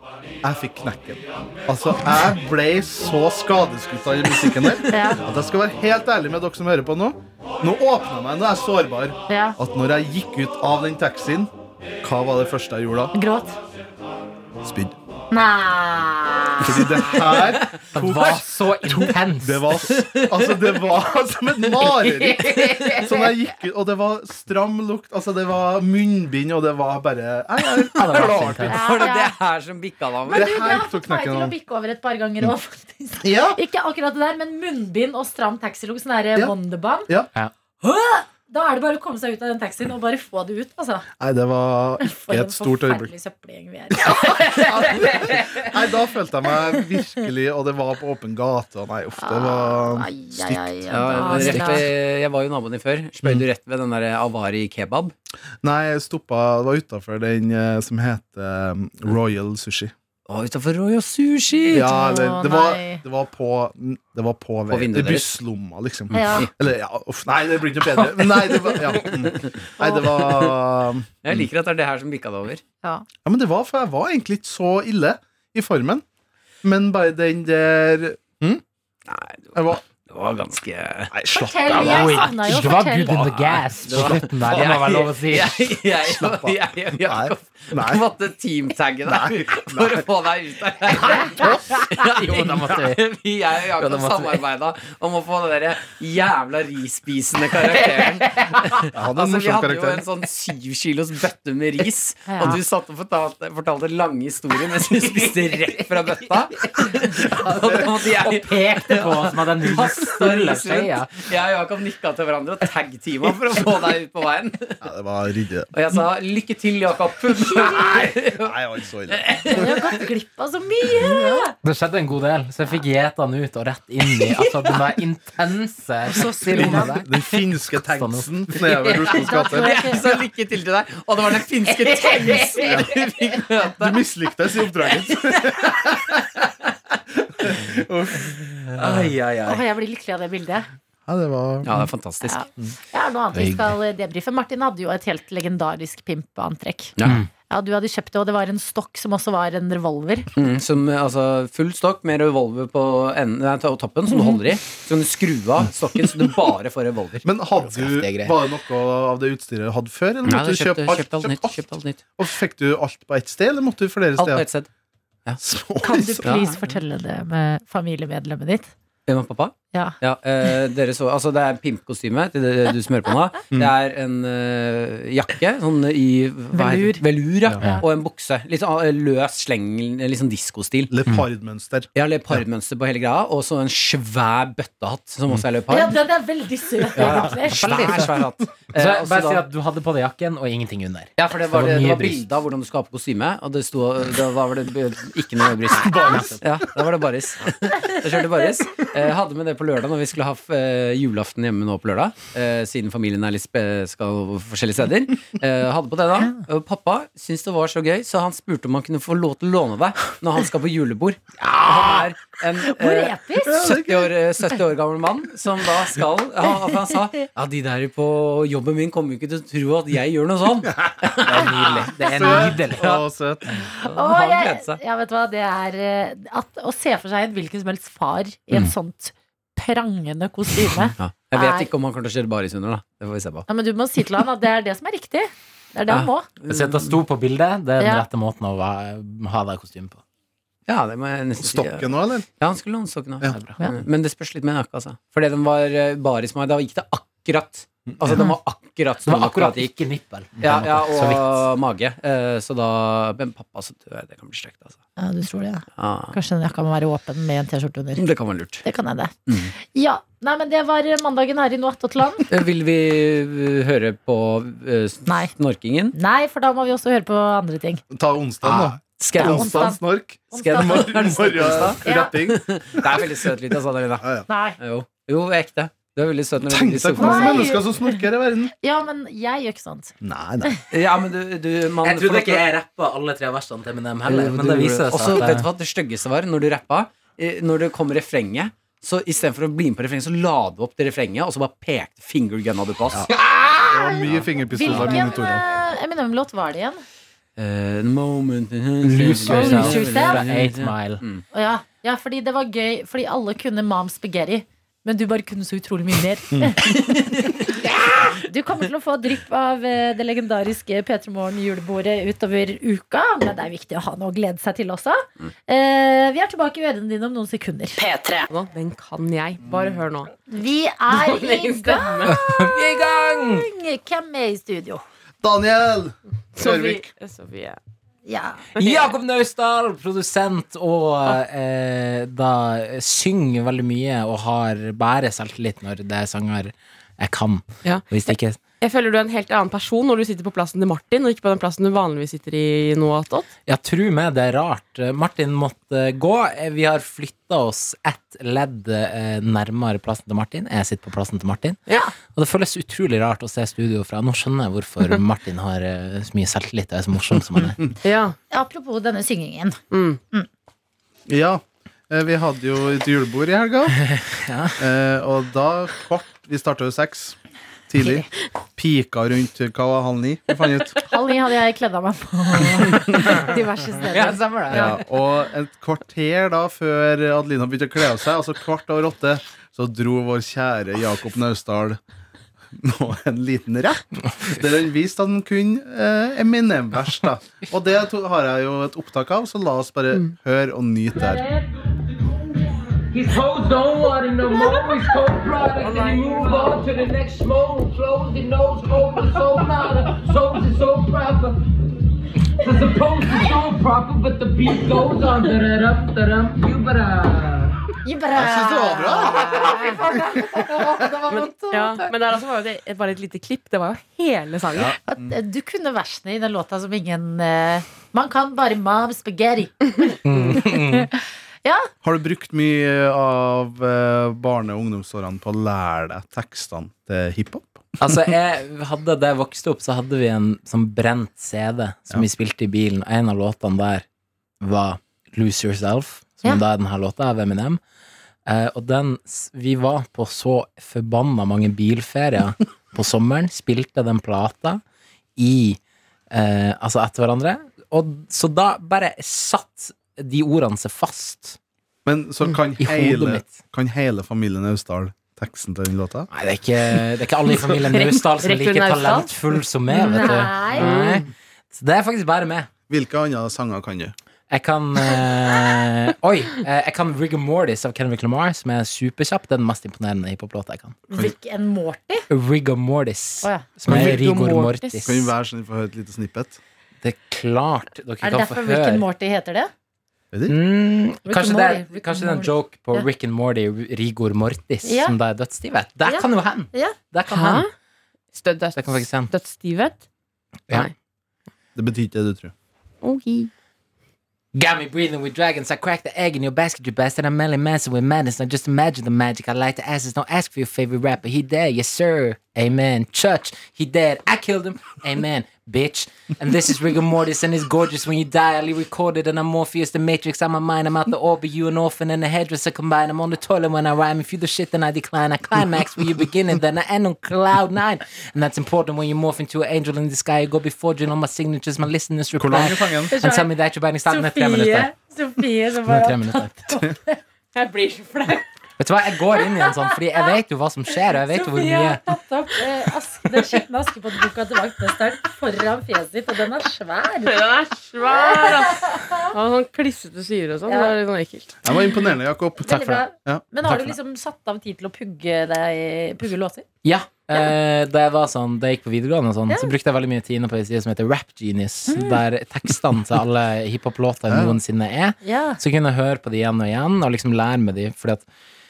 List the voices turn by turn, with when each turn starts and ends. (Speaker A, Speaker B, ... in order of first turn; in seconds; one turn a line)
Speaker A: 0.4-11.5
Speaker B: 4.9-5.2
Speaker B: 9.3-9.6
Speaker A: 12.0-13.1
Speaker B: 13.1-13.6
Speaker A: 14.6-14.9
Speaker B: 15.3-17.3
Speaker A: 16.6-28.8
Speaker C: 17.9-19.7
Speaker D: 19.9-20.7
Speaker C: 21.9-23.5
Speaker C: 27.9-28.9
Speaker D: 28.0-30.8
Speaker B: 28.7-29.4
Speaker B: 30.3-37.1
Speaker A: 30.3-31.5
Speaker A: 33.2-33.6
Speaker B: 37.8-41.1
Speaker A: 41.2-43.1
Speaker B: 42.0-45.2
Speaker A: 44.0-50.7
Speaker B: 49.2-51.9
Speaker D: 50.9-55.1
Speaker C: 51.4-51.9
Speaker A: 55.6-59.9
Speaker D: 60.3-61.9
Speaker A: 61.7-71.5
Speaker B: 61.8-63.0
Speaker D: 64.7-65.4
Speaker B: 66.1-66.5
Speaker D: 66.2-66.5
Speaker C: 68.2-68.9
Speaker D: 69.0-70.5
Speaker D: 71.2-72.6
Speaker A: 73.2-76.0
Speaker A: 76.6-78.6
Speaker D: 79.1-81.1
Speaker A: 79.5-79.8
Speaker A: 81.1-82.3
Speaker B: 81.3-83.3
Speaker C: 81.7-85.8
Speaker D: 83.8-114.8
Speaker A: 86.1-88.0
Speaker A: 89.1-90.1
Speaker C: 91.5-93.0
Speaker C: 93.8-94.4
Speaker C: 97.8-98.8
Speaker A: 98.9-100.0
Speaker B: 102.3-102.6
Speaker C: 105.0-111.2
Speaker A: 114.8-115.7
Speaker D: 115.7-118.6
Speaker B: 117.5-118.0
Speaker A: 118.4-119.6
Speaker D: 119.1-120.0
Speaker B: 119.5-121.5
Speaker A: 121.0-121.5
Speaker C: 121.6-129.0
Speaker B: 126.2-126.9
Speaker A: 126.5-129.9
Speaker D: 128.8-134.0
Speaker B: 129.1-130.0
Speaker C: 131.7-132.8
Speaker A: 132.7-132.9
Speaker A: 133.8-136.4
Speaker A: 137.2-139.1
Speaker C: 138.8-139.6
Speaker B: 139.5-140.7
Speaker A: 141.1-141.9
Speaker D: 141.6-142.4
Speaker B: 142.2-146.9
Speaker C: 143.3-143.7
Speaker D: 147.0-147.2
Speaker B: 147.5-150.3
Speaker D: 150.4-157.3
Speaker A: 157.2-161.6
Speaker C: 157.6-158.3
Speaker D: 160.2-162.0
Speaker A: 162.2-164.5
Speaker D: 164.2-164.7
Speaker A: 165.4-166.4
Speaker B: 165.8-168.7
Speaker D: 166.2-166.6
Speaker D: 169.1-180.9
Speaker B: 176.5-177.0
Speaker A: 180.9-182.4
Speaker D: 181.9-186.0
Speaker B: 185.7-187.7
Speaker D: 187.0-189.4
Speaker C: 187.0-192.3
Speaker D: 191.2-221.8
Speaker C: 195.7-196.4
Speaker A: 195.9-196.3
Speaker B: 212.7-213.6
Speaker A: 213.5-214.1
Speaker A: 221.2-223.7
Speaker C: 221.3-223.0
Speaker D: 223.8-224.8
Speaker B: 223.8-231.7
Speaker D: 231.0-233.5
Speaker B: 233.5-236.3
Speaker D: 235.9-237.0
Speaker C: 236.5-240.0
Speaker B: 237.8-238.1
Speaker D: 240.7-249.7
Speaker A: 241.4-242.3
Speaker C: 243.2-243.6
Speaker A: 247.9-248.2
Speaker C: 249.1-251.4
Speaker D: 250.4-254.8
Speaker B: 255.0-258.0
Speaker D: 255.8-256.1
Speaker D: 258.0-258.6
Speaker B: 258.6-262.3
Speaker D: 262.3-265.9
Speaker B: 265.1-265.3
Speaker B: 265.9-267.8
Speaker A: 267.9-273.1
Speaker D: 268.5-269.8
Speaker B: 269.1-272.1
Speaker D: 270.3-277.5
Speaker B: 274.3-274.6
Speaker A: 276.5-278.5
Speaker B: 277.0-278.0
Speaker B: 278.6-279.9
Speaker A: 280.0-280.6
Speaker D: 280.7-282.5
Speaker C: 281.8-285.5
Speaker D: 284.1-293.1
Speaker A: 292.9-295.4
Speaker B: 293.5-296.8
Speaker D: 294.1-294.8
Speaker D: 297.4-301.2
Speaker C: 298.8-301.0
Speaker B: 299.3-300.2
Speaker B: 301.3-307.2
Speaker B: 308.0-318.3
Speaker E: 318.3-320.1
Speaker B: 320.3-324.8
Speaker E: 320.9-322.2
Speaker C: 322.1-323.5
Speaker A: 325.2-326.9
Speaker E: 326.4-327.6
Speaker B: 328.1-328.5
Speaker E: 328.6-328.9
Speaker C: 328.6-338.4
Speaker E: 338.6-343.3
Speaker C: 343.5-351.6
Speaker C: 352.1-357.6
Speaker E: 357.8-358.2
Speaker B: 358.3-359.6
Speaker E: 359.7-360.0
Speaker A: 361.1-363.9
Speaker C: 363.9-364.6
Speaker A: 364.6-367.2
Speaker A: 367.7-370.8
Speaker B: 370.9-374.8
Speaker C: 373.9-374.8
Speaker A: 374.5-381.8
Speaker A: 382.6-391.2
Speaker F: 391.0-391.4
Speaker F: 392.1-401.4
Speaker F: 402.4-407.6
Speaker B: 407.9-411.9
Speaker A: 408.1-410.8
Speaker E: 411.1-414.8
Speaker A: 414.5-415.1
Speaker B: 414.9-421.7
Speaker C: 420.1-420.9
Speaker A: 421.8-427.8
Speaker C: 427.8-433.9
Speaker C: 434.4-437.6
Speaker C: 438.3-444.6
Speaker C: 445.2-445.6
Speaker C: 446.1-451.4
Speaker A: 451.9-456.1
Speaker C: 452.6-453.4
Speaker C: 456.1-462.5
Speaker E: 457.8-459.2
Speaker E: 459.7-461.1
Speaker B: 459.8-460.7
Speaker A: 462.7-463.9
Speaker C: 464.3-470.8
Speaker B: 470.9-472.1
Speaker C: 472.1-475.1
Speaker A: 473.7-476.4
Speaker E: 473.9-474.8
Speaker C: 476.8-478.9
Speaker B: 478.0-479.5
Speaker A: 480.1-480.4
Speaker C: 480.3-487.5
Speaker B: 481.1-482.9
Speaker B: 484.6-484.9
Speaker B: 485.9-486.8
Speaker E: 487.1-487.5
Speaker E: 488.1-489.8
Speaker C: 488.6-489.1
Speaker A: 491.6-492.3
Speaker E: 492.8-493.3
Speaker C: 494.3-524.7
Speaker A: 522.2-522.9
Speaker B: 522.9-523.3
Speaker B: 523.9-528.2
Speaker C: 525.7-526.5
Speaker C: 528.6-531.8
Speaker B: 529.2-530.1
Speaker B: 530.9-537.2
Speaker E: 537.0-541.3
Speaker B: 537.9-539.1
Speaker B: 540.5-540.7
Speaker A: 541.4-543.7
Speaker B: 541.5-541.8
Speaker B: 542.4-546.5
Speaker C: 546.6-558.0
Speaker B: 551.7-552.0
Speaker A: 554.1-554.4
Speaker B: 555.0-555.4